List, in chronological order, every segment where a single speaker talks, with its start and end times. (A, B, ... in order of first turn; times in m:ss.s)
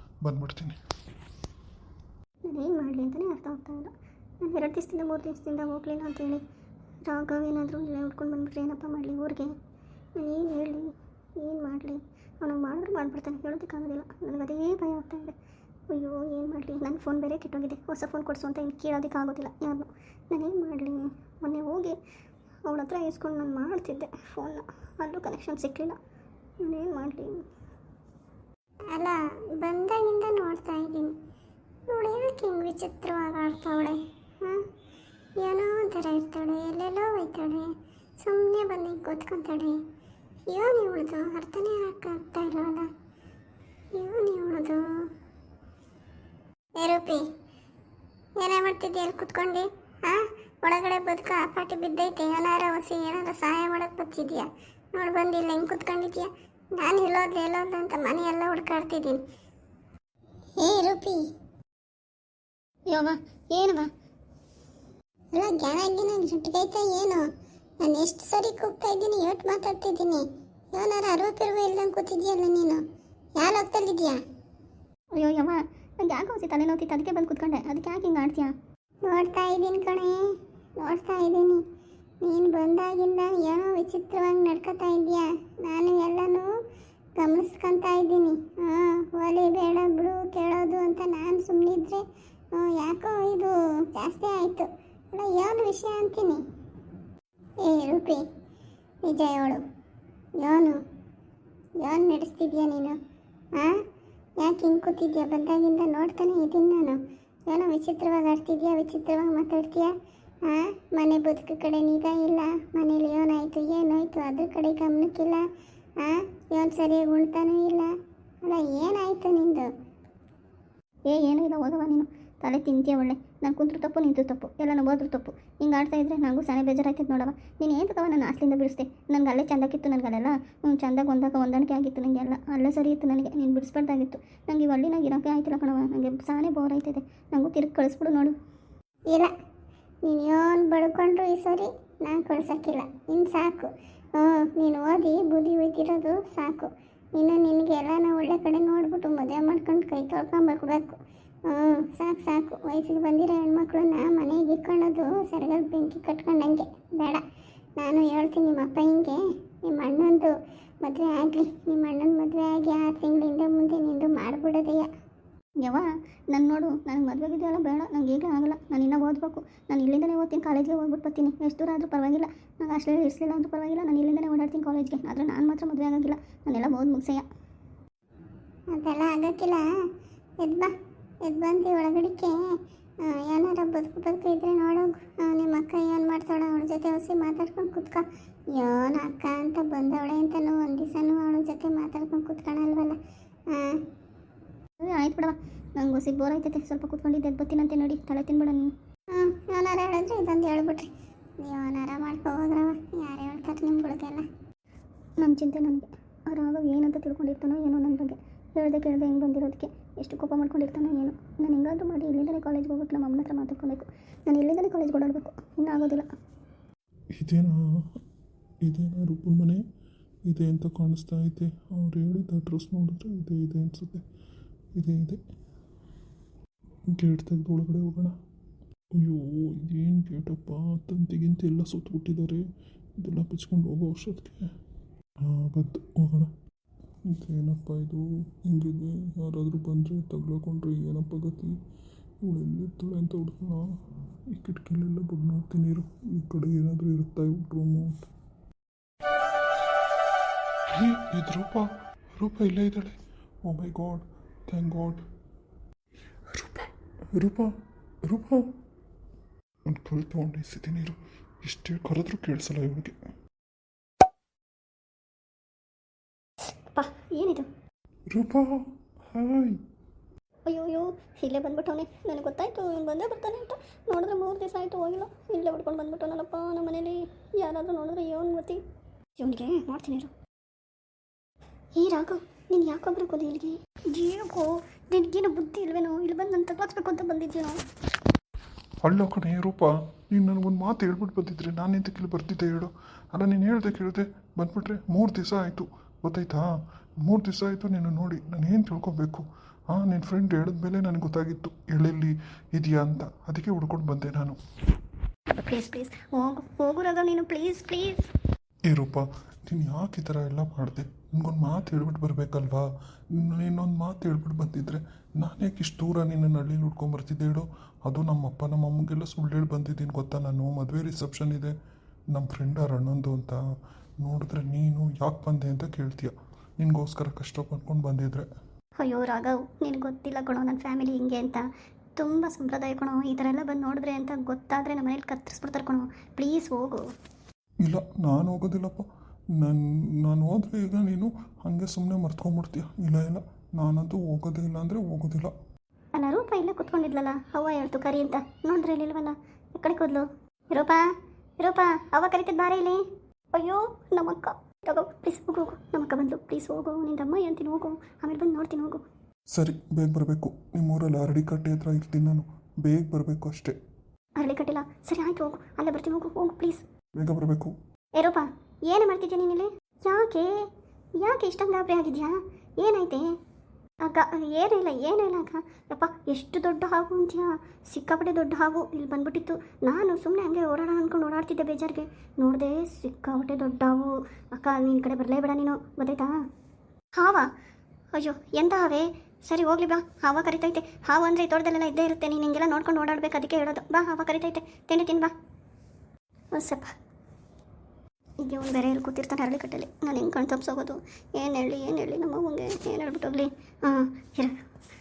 0:00.2-0:00.8 A
0:02.4-0:06.4 B
0:07.0-0:09.5 B
0:10.2-0:15.3 B
0:15.9-0:22.0 B
0:22.7-0:26.0 B
0:26.6-0:27.4 B
0:28.9-0:31.1 C
0:31.9-0:34.6 C
0:35.4-0:39.8 C
0:40.5-0:42.9 C
0:43.9-0:44.8 C
0:46.8-0:47.2 C
0:48.4-0:59.2 C
1:00.6-1:01.2 C
1:02.9-1:03.9 B
1:05.3-1:07.2 C
1:07.8-1:12.8 C
1:13.4-1:14.2 C
1:15.2-1:18.5 B
1:19.1-1:20.2 C
1:20.8-1:21.6 C
1:22.2-1:26.5 C
1:27.2-1:32.0 C
1:32.5-1:36.4 C
1:37.6-1:38.2 C
1:39.0-1:39.6 C
1:40.4-1:40.8 C
1:41.8-1:43.0 C
1:44.4-1:49.9 C
1:50.4-1:55.4 C
1:56.0-1:57.9 C
1:58.4-1:59.7 C
2:01.1-2:18.3 B
2:20.0-2:37.2 C
2:37.8-2:44.9 C
2:45.6-2:57.3 B
2:58.7-2:59.6 C
3:00.4-3:00.7 C
3:01.2-3:02.5 C
3:03.0-3:13.0 C
3:13.5-3:13.8 C
3:14.8-3:18.7 B
3:19.1-3:24.3 C
3:25.2-3:36.1 B
3:37.2-3:37.6 A
3:38.6-3:39.6 A
3:40.3-3:44.0 A
3:44.8-3:45.2 A
3:46.9-3:48.2 A
3:49.0-3:52.4 A
3:53.0-3:54.5 A
3:55.2-3:56.3 A
3:57.1-4:01.6 A
4:02.2-4:03.7 A
4:04.3-4:08.0 A
4:10.7-4:15.0 A
4:16.3-4:17.5 A
4:18.0-4:18.4 A
4:19.7-4:23.0 A
4:26.7-4:27.5 B
4:28.1-4:29.6 A
4:30.5-4:38.6 B
4:39.2-4:40.1 B
4:41.8-4:47.6 B
4:48.8-4:56.5 A
4:57.0-5:04.4 A
5:05.3-5:08.1 B
5:08.7-5:21.5 A
5:22.1-5:23.4 A
5:24.0-5:28.3 A
5:28.8-5:31.4 B
5:32.0-5:36.8 B
5:37.6-5:38.8 A
5:39.4-5:45.3 A
5:46.0-5:50.8 B
5:51.4-5:52.8 B
5:53.3-5:58.8 B
5:59.3-6:03.6 A
6:04.2-6:06.6 B
6:07.0-6:07.5 A
6:08.0-6:10.4 B
6:11.0-6:13.1 B
6:13.8-6:26.1 B
6:27.0-6:27.3 B
6:28.0-6:35.1 B
6:36.3-6:36.7 B
6:38.2-6:44.4 B